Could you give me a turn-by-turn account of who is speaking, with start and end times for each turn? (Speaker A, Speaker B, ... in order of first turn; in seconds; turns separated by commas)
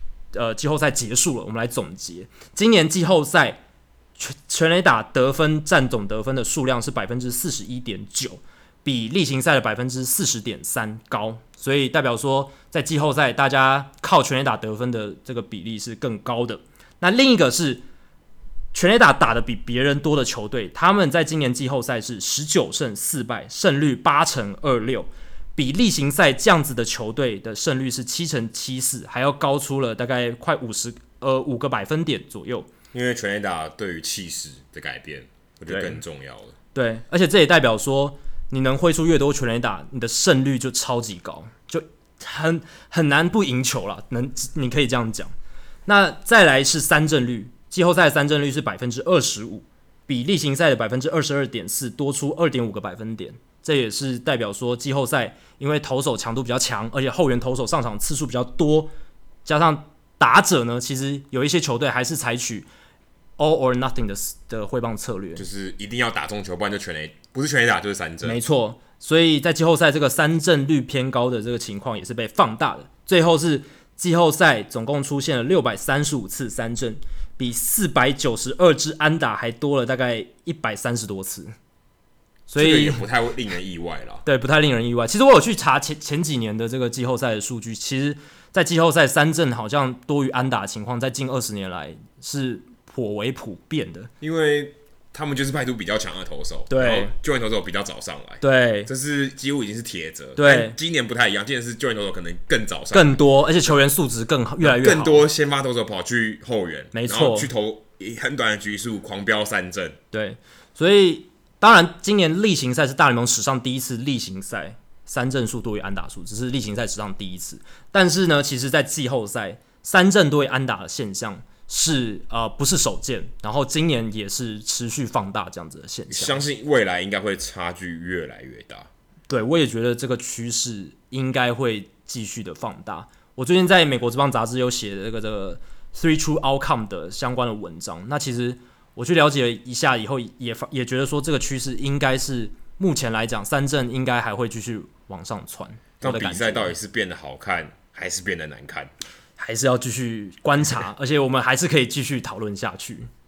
Speaker A: 0.3-3.6, Speaker A: 4.2-17.8, Speaker A: 18.7-32.7, Speaker B: 32.9-36.5, Speaker A: 35.7-36.0, Speaker A: 36.7-45.3, Speaker A: 45.9-58.9, Speaker A: 59.4-62.7, Speaker A: 63.4-65.4, Speaker B: 65.3-68.4, Speaker A: 68.2-81.5, Speaker A: 82.5-83.0, Speaker B: 82.6-84.2, Speaker A: 84.2-94.1, Speaker B: 94.2-103.2, Speaker A: 96.7-97.1, Speaker A: 98.4-98.9, Speaker A: 100.4-100.8, Speaker A: 102.9-105.2, Speaker B: 104.6-110.0, Speaker A: 106.9-107.5, Speaker A: 110.1-126.4, Speaker B: 126.1-128.9, Speaker A: 129.3-146.7, Speaker B: 146.0-148.9, Speaker A: 149.4-153.1